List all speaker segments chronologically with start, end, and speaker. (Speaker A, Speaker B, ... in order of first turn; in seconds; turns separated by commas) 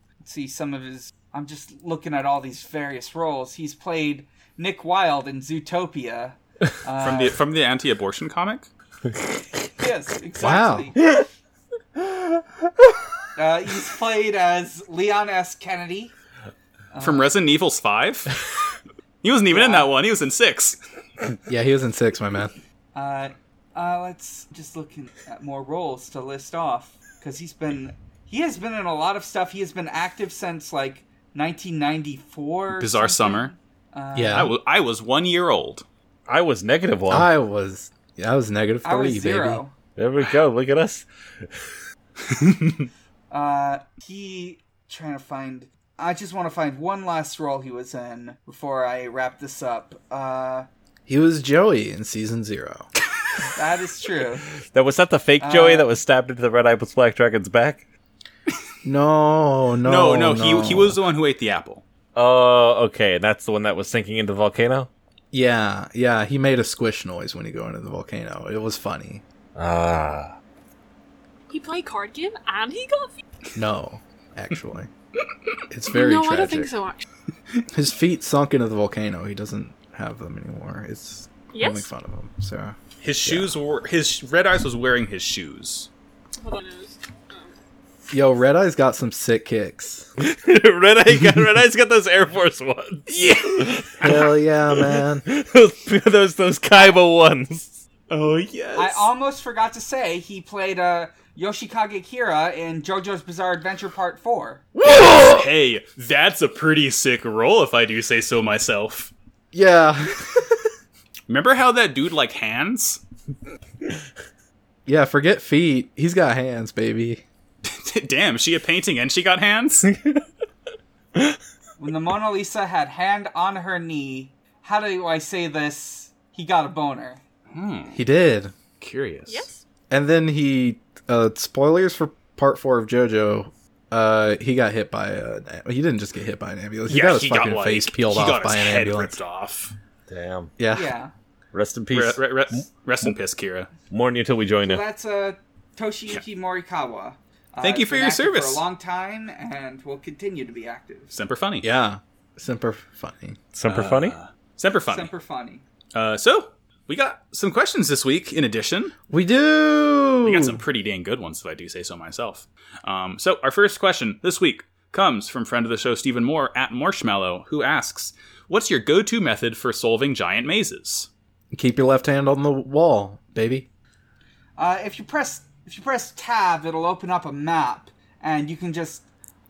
Speaker A: 0.2-7.4, Speaker B: 7.0-8.7, Speaker A: 9.8-11.1, Speaker C: 10.4-10.9, Speaker D: 12.0-12.4, Speaker A: 13.4-16.1, Speaker A: 16.9-17.3, Speaker B: 17.0-18.3, Speaker B: 19.2-20.8, Speaker A: 19.5-19.9, Speaker C: 21.5-22.5, Speaker A: 22.9-34.5, Speaker B: 32.7-33.5, Speaker C: 34.1-34.5, Speaker B: 34.3-35.9, Speaker D: 36.3-37.3, Speaker C: 37.1-39.6, Speaker A: 38.8-39.7, Speaker D: 40.0-41.5, Speaker B: 42.2-42.9, Speaker A: 43.3-50.7, Speaker C: 51.1-52.9, Speaker A: 53.5-54.5, Speaker D: 54.7-57.8, Speaker A: 55.4-55.9, Speaker C: 58.8-61.0, Speaker B: 59.8-61.8, Speaker D: 62.2-64.9, Speaker C: 65.3-69.2, Speaker D: 69.6-70.3, Speaker E: 71.5-73.2, Speaker C: 73.6-74.9, Speaker C: 75.7-76.7, Speaker E: 75.9-77.0, Speaker C: 77.7-83.5, Speaker E: 81.5-81.9, Speaker B: 83.0-85.9, Speaker E: 86.4-87.5, Speaker C: 88.1-90.1, Speaker D: 90.2-97.8, Speaker B: 93.1-94.2, Speaker C: 94.0-95.2, Speaker B: 98.1-99.1, Speaker A: 98.8-104.7, Speaker D: 104.8-105.4, Speaker B: 104.8-109.1, Speaker C: 109.5-110.5, Speaker B: 111.3-113.0, Speaker C: 114.9-117.2, Speaker B: 117.7-119.9, Speaker D: 119.9-120.2, Speaker A: 121.8-127.2, Speaker B: 127.5-128.0, Speaker C: 127.9-128.5, Speaker B: 128.8-129.5, Speaker E: 129.3-129.6, Speaker C: 129.9-139.2, Speaker B: 136.9-139.7, Speaker D: 140.1-140.5, Speaker C: 140.6-140.9, Speaker A: 140.7-141.1, Speaker D: 141.5-142.6, Speaker B: 141.9-143.7, Speaker D: 143.9-144.8, Speaker A: 144.6-151.1, Speaker B: 147.6-148.6, Speaker B: 151.1-151.7, Speaker C: 151.6-153.4, Speaker D: 153.5-154.2, Speaker B: 153.7-155.1, Speaker A: 154.9-155.6, Speaker B: 155.9-158.9, Speaker C: 159.1-160.6, Speaker B: 160.2-171.1, Speaker C: 171.5-173.7, Speaker A: 174.6-179.1